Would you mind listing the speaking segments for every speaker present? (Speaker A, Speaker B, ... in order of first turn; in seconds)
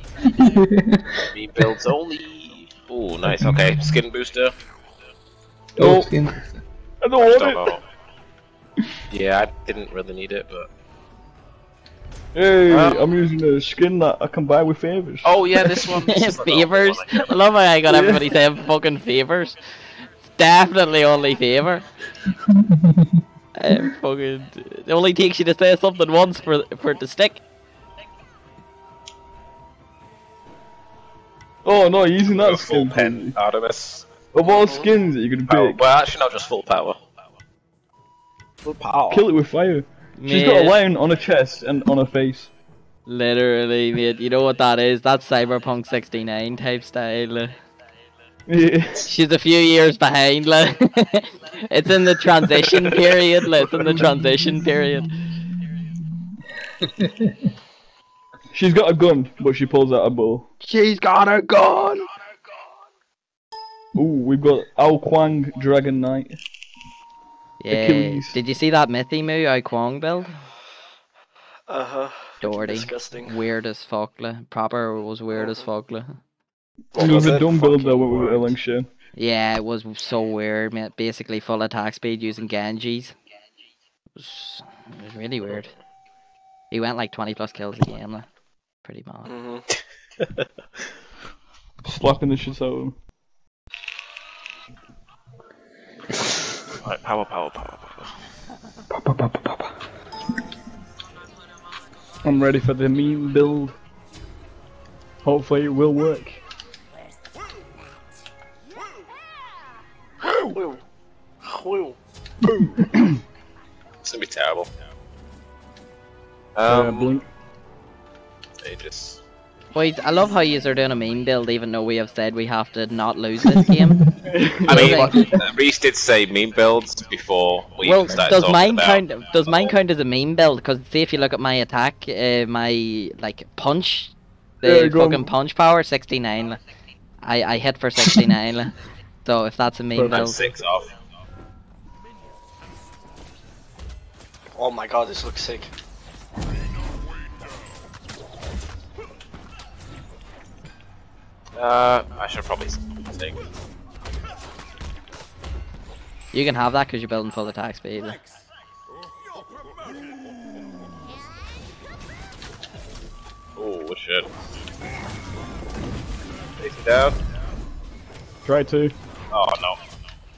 Speaker A: 0.2-1.2, 3.2-4.0, 5.8-6.4, 22.4-23.1, 53.9-54.4, 57.0-57.3, 98.9-99.7
Speaker B: 1.1-4.5, 7.2-7.8, 9.1-10.7, 12.7-13.1, 15.2-17.3, 32.2-34.0, 35.5-37.0, 38.6-39.3, 76.9-78.5, 96.8-98.1, 114.0-114.7, 116.5-117.1, 118.6-119.2, 124.7-129.7, 140.1-140.9, 151.6-153.4, 163.6-164.3, 166.6-167.2, 169.3-169.8
Speaker C: 5.8-6.1, 7.0-7.8, 12.3-15.3, 17.9-18.3, 31.6-33.4, 34.3-35.8, 39.1-42.5, 48.5-49.1, 58.5-60.5, 63.9-66.4, 67.7-68.4, 77.0-78.9, 91.8-93.0, 102.2-103.8, 105.2-106.4, 112.5-113.1, 116.7-117.2, 124.2-125.4, 134.6-135.3, 140.0-140.3, 168.4-168.9
Speaker D: 16.0-19.6, 20.3-21.9, 23.6-27.4, 40.2-40.8, 43.1-47.5, 49.0-55.1, 60.6-62.1, 67.6-70.4, 72.4-76.2, 79.2-83.1, 84.2-85.7, 86.7-88.3, 88.8-89.3, 119.7-124.0, 124.7-125.4, 127.8-136.6, 137.2-140.4, 156.3-158.2
Speaker E: 34.6-34.9, 71.7-73.3, 77.0-77.3, 89.3-89.6, 110.4-110.8, 111.4-112.0, 144.6-145.7